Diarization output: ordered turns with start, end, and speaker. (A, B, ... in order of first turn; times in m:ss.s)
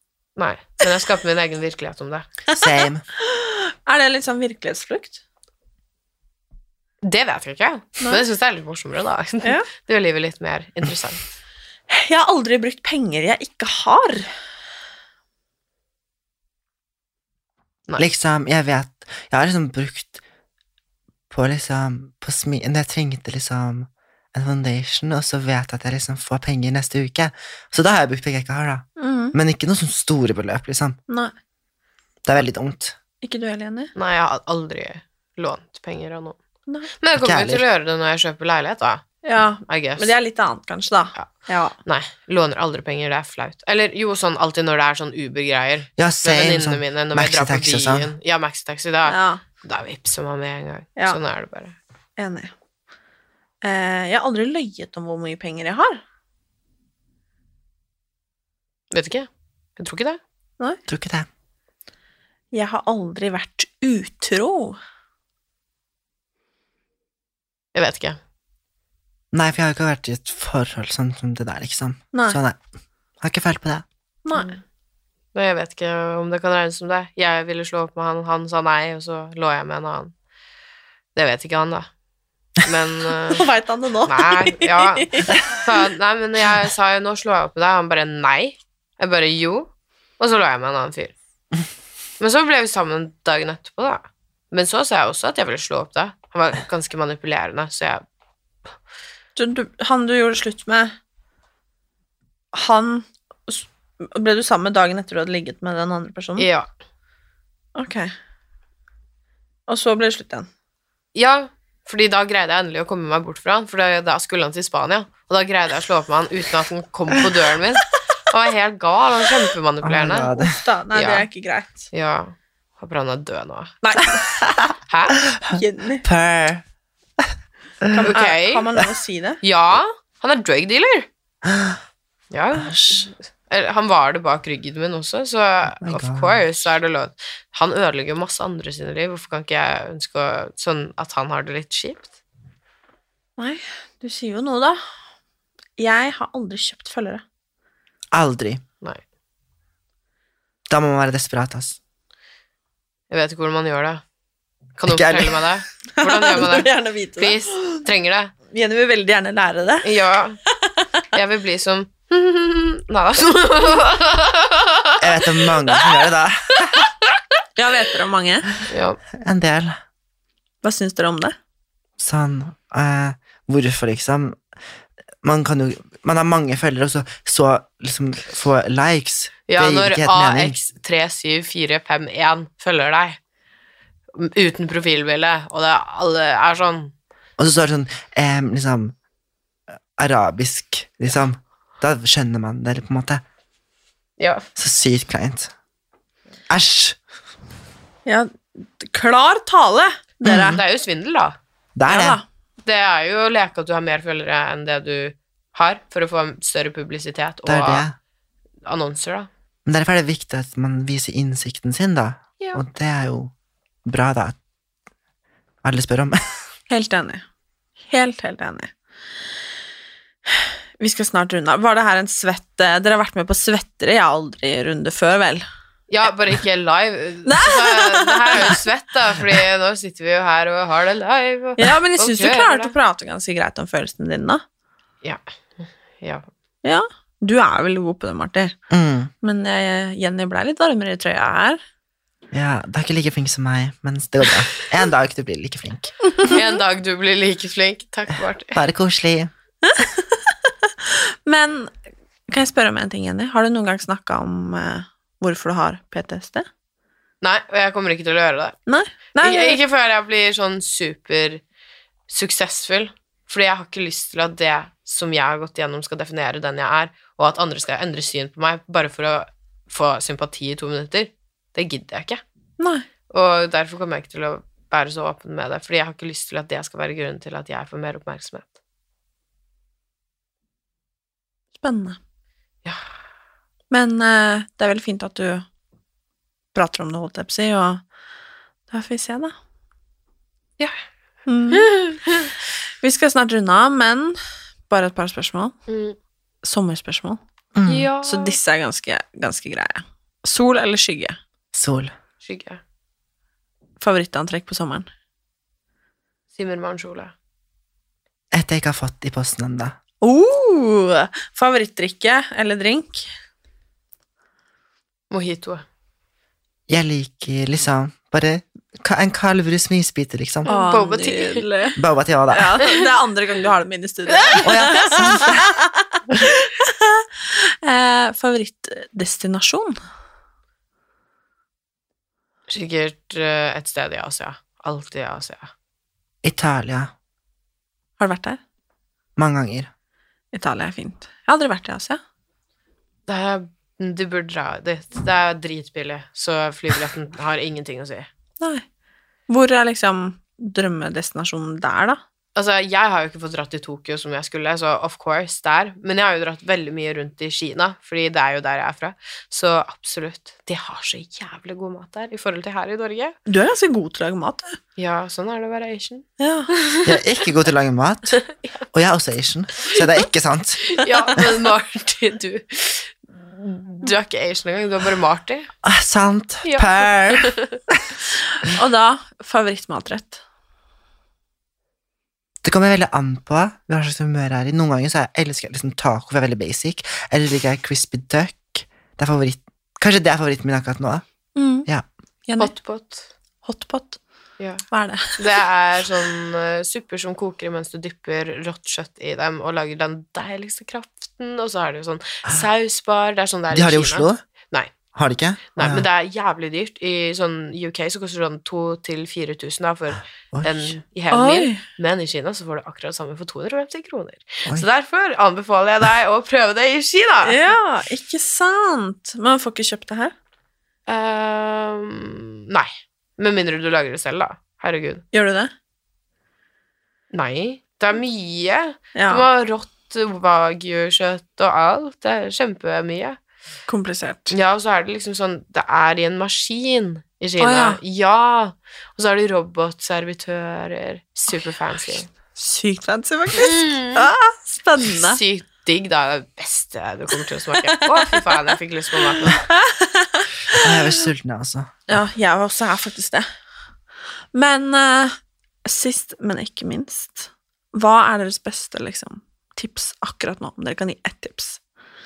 0:00.4-0:02.3 A
0:02.6-0:03.0 B
0:03.2-0:05.2 C
0:07.0-0:11.2 A
0:11.9-0:14.3 C
0:18.0-0:20.2 B
0:21.3-0:31.0 B
0:29.0-0:29.4 C
0:32.2-0:33.0 B
0:33.2-0:33.9 C
0:34.0-0:36.4 A
0:37.0-0:39.0 A
0:37.2-0:37.6 B
0:39.2-0:41.8 C
0:39.7-0:40.1 A
0:41.9-0:51.8 A
0:46.0-0:48.1 B
0:49.0-0:49.4 C
0:52.2-0:52.5 C
0:53.6-0:56.0 C
0:58.9-1:00.2 A
1:00.9-1:01.3 B
1:02.5-1:04.8 C
1:07.7-1:08.2 A
1:09.3-1:12.6 B
1:12.1-1:12.4 C
1:13.2-1:13.8 B
1:14.2-1:14.5 C
1:15.3-1:20.1 A
1:21.2-1:21.9 A
1:22.6-1:23.5 A
1:23.4-1:25.3 C
1:24.0-1:31.1 A
1:32.2-1:38.0 A
1:39.4-1:41.0 C
1:42.5-1:46.5 C
1:46.4-1:46.7 A
1:47.8-1:48.1 C
1:49.7-1:50.5 C
1:51.1-2:00.3 A
1:59.8-2:00.6 B
2:00.4-2:01.9 C
2:00.9-2:01.3 A
2:01.9-2:03.7 A
2:03.8-2:04.3 C
2:04.4-2:04.7 B
2:04.9-2:05.2 A
2:05.3-2:06.6 B
2:05.5-2:06.0 C
2:07.8-2:08.1 B
2:07.9-2:09.4 C
2:08.0-2:08.7 A
2:09.4-2:11.1 A
2:11.4-2:11.8 B
2:12.3-2:22.2 A
2:12.5-2:13.1 B
2:15.8-2:16.4 B
2:23.4-2:24.8 C
2:25.8-2:27.2 C
2:28.1-2:28.6 B
2:30.7-2:31.8 B
2:33.1-2:34.0 A
2:34.8-2:38.3 A
2:34.9-2:35.4 B
2:36.0-2:37.8 C
2:38.5-2:39.9 C
2:39.8-2:40.4 A
2:41.1-2:45.0 A
2:45.0-2:46.9 B
2:47.6-2:48.4 C
2:48.7-2:49.0 A
2:49.2-2:49.8 B
2:50.6-2:51.4 C
2:52.0-2:54.4 B
2:55.2-3:00.6 B
2:59.5-3:03.2 A
3:04.1-3:06.9 A
3:07.4-3:09.0 B
3:10.0-3:13.2 B
3:14.2-3:14.5 A
3:14.6-3:15.5 B
3:16.5-3:17.0 B
3:18.0-3:20.6 C
3:20.2-3:20.6 B
3:20.4-3:21.4 A
3:21.8-3:22.2 B
3:21.9-3:22.2 C
3:22.6-3:27.9 A
3:27.4-3:28.0 B
3:28.7-3:29.3 A
3:29.7-3:33.3 B
3:33.8-3:34.4 B
3:35.6-3:36.2 B
3:36.7-3:37.2 C
3:37.9-3:38.7 C
3:40.3-3:45.4 C
3:45.9-3:52.7 A
3:47.3-3:48.6 C
3:51.6-3:54.4 C
3:55.0-3:56.3 A
3:56.6-3:58.6 C
3:58.7-3:59.1 B
3:59.2-4:01.6 C
4:02.3-4:05.9 B
4:06.3-4:08.6 A
4:08.5-4:09.3 B
4:09.6-4:11.7 C
4:12.3-4:16.5 C
4:17.2-4:18.6 A
4:18.7-4:19.6 C
4:19.2-4:21.4 A
4:22.1-4:32.2 A
4:32.6-4:32.9 C
4:33.1-4:38.6 A
4:41.6-4:42.0 C
4:43.7-4:45.4 C
4:46.5-4:47.8 C
4:48.7-4:49.4 C
4:51.3-4:51.7 C
4:51.5-4:52.3 A
4:52.8-4:54.2 C
4:54.7-4:55.5 C
4:55.7-4:56.0 A
4:56.4-4:57.2 C
4:57.6-4:57.9 B
4:57.7-4:58.4 A
4:58.0-5:01.2 C
5:01.5-5:01.9 B
5:02.2-5:02.6 A
5:03.8-5:04.9 C
5:06.3-5:07.1 A
5:08.3-5:09.8 B
5:10.0-5:13.1 C
5:15.1-5:15.6 A
5:16.7-5:20.5 B
5:20.4-5:21.4 A
5:20.4-5:21.8 C
5:21.8-5:22.6 B
5:22.3-5:29.8 C
5:24.1-5:24.5 A
5:24.4-5:25.4 B
5:32.5-5:35.5 A
5:36.2-5:36.9 B
5:38.0-5:38.4 C
5:39.2-5:39.7 B
5:40.3-5:42.0 C
5:43.1-5:48.1 A
5:48.4-5:48.7 C
5:49.3-5:52.0 C
5:52.4-6:03.2 A
6:03.3-6:04.6 C
6:04.8-6:07.0 A
6:06.2-6:06.5 C
6:06.8-6:08.2 B
6:08.7-6:11.3 B
6:10.7-6:15.5 A
6:15.6-6:17.8 B
6:16.4-6:17.6 A
6:18.5-6:20.2 C
6:22.4-6:31.0 B
6:31.4-6:31.7 C
6:32.3-6:32.5 C
6:32.4-6:33.1 A
6:33.4-6:34.0 C
6:34.4-6:34.7 A
6:34.7-6:35.2 C
6:35.2-6:44.7 A
6:43.5-6:44.2 B
6:44.9-6:45.9 B
6:45.6-6:57.4 A
6:50.3-6:50.7 B
6:51.1-6:51.6 C
6:57.2-7:00.1 C
7:00.9-7:05.0 A
7:05.1-7:05.5 C
7:07.1-7:13.2 A
7:09.0-7:09.3 C
7:13.7-7:14.4 C
7:14.3-7:22.1 A
7:17.4-7:17.8 C
7:22.4-7:25.2 C
7:23.4-7:24.1 A
7:24.9-7:29.4 A
7:27.7-7:28.3 C
7:29.0-7:30.7 C
7:30.5-7:31.7 B
7:31.9-7:33.3 C
7:34.3-7:41.6 C